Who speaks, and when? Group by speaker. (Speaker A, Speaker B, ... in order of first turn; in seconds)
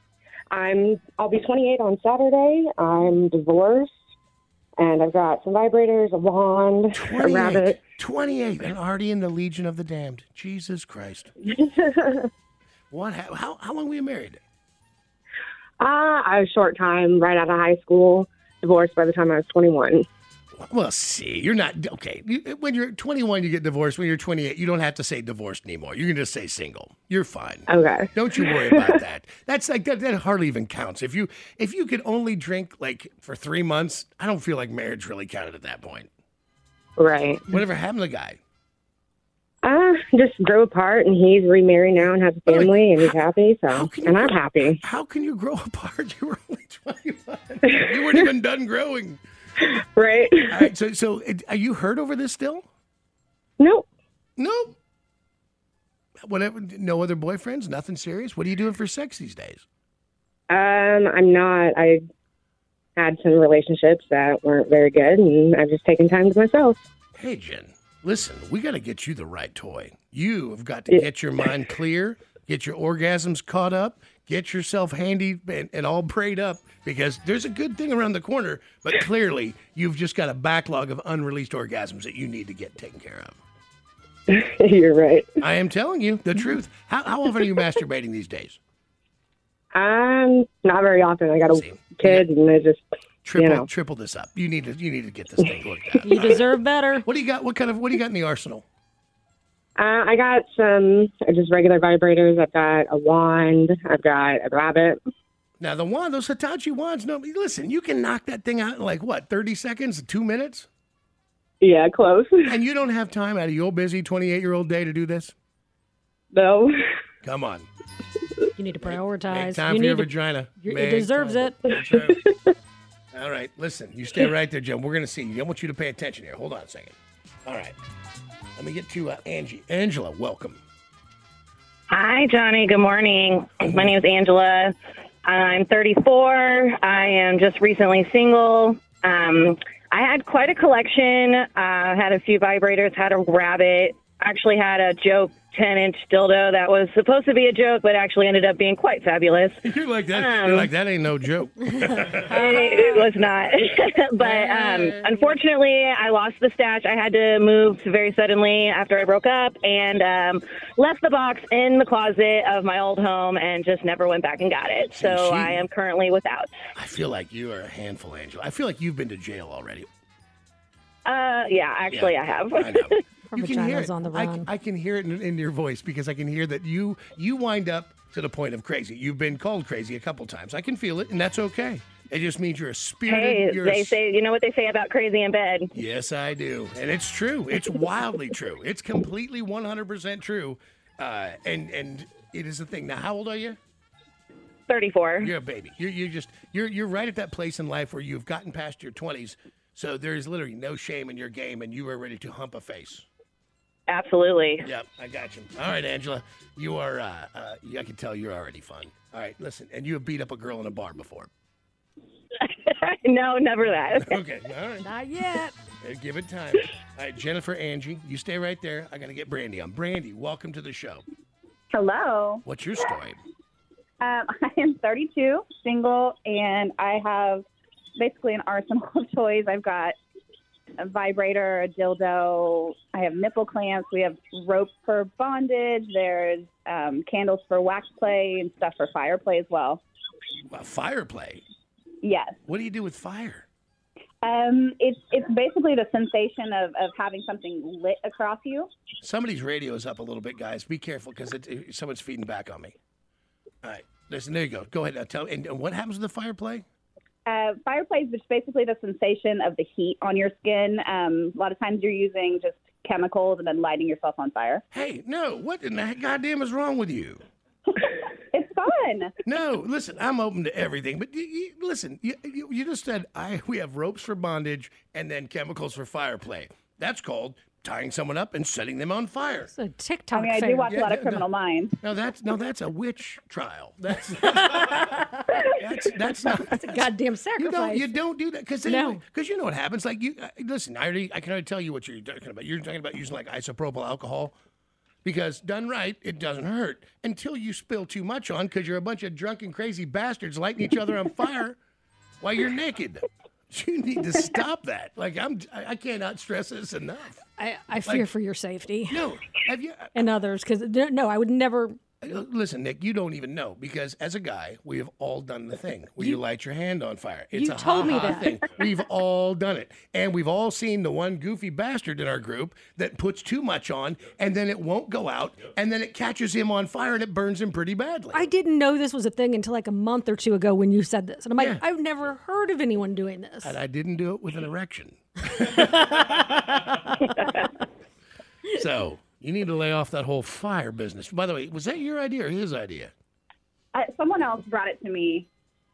Speaker A: 0.5-4.0, 4.8-7.8, 11.4-12.3, 15.8-20.1, 27.7-29.0, 37.0-37.6, 39.6-44.8, 47.7-48.3, 49.6-50.7, 53.6-53.9, 60.5-62.0, 63.0-66.8, 84.3-85.4, 89.7-92.8, 93.4-93.7, 99.8-105.0, 111.6-112.6, 116.3-116.8, 121.9-122.3
Speaker B: 6.9-11.3, 12.9-14.4, 20.5-36.1, 37.5-38.4, 42.5-43.1, 43.7-49.2, 50.5-52.7, 54.4-54.8, 56.2-59.6, 67.2-83.4, 85.4-88.6, 91.5-92.3, 93.2-96.5, 97.0-98.7, 105.6-110.7, 112.5-115.3, 117.2-117.7, 118.8-122.2, 123.1-127.8, 128.6-130.6, 149.6-152.6, 154.2-155.3, 164.9-165.7, 166.8-169.9, 171.9-184.0, 185.7-193.6, 195.2-203.1, 204.6-211.3, 213.9-214.9, 215.8-221.0, 222.4-223.2, 240.5-241.4, 242.5-243.5, 249.0-252.8, 253.6-256.6, 264.7-267.2, 269.2-279.5, 280.7-281.3, 281.8-294.4, 295.0-301.6, 302.2-307.2, 308.9-309.9, 312.0-328.3, 331.4-331.6, 333.4-336.4, 338.5-342.9
Speaker C: 96.0-97.1, 118.6-121.6, 151.8-153.1, 173.3-174.5, 214.8-215.6, 279.5-280.8, 286.3-287.9, 288.6-289.0, 307.4-309.0, 309.9-311.8, 317.3-318.5, 328.1-333.6, 335.6-336.1
Speaker D: 131.9-149.6, 150.1-150.7, 152.3-166.5, 171.1-173.0, 183.1-185.7, 194.7-195.3, 203.9-204.7, 212.4-214.2
Speaker E: 221.7-222.4, 224.0-227.4, 228.0-230.0, 230.8-239.8, 242.0-242.4, 244.2-248.7, 257.3-264.6, 268.3-269.1, 280.1-281.8, 343.7-345.3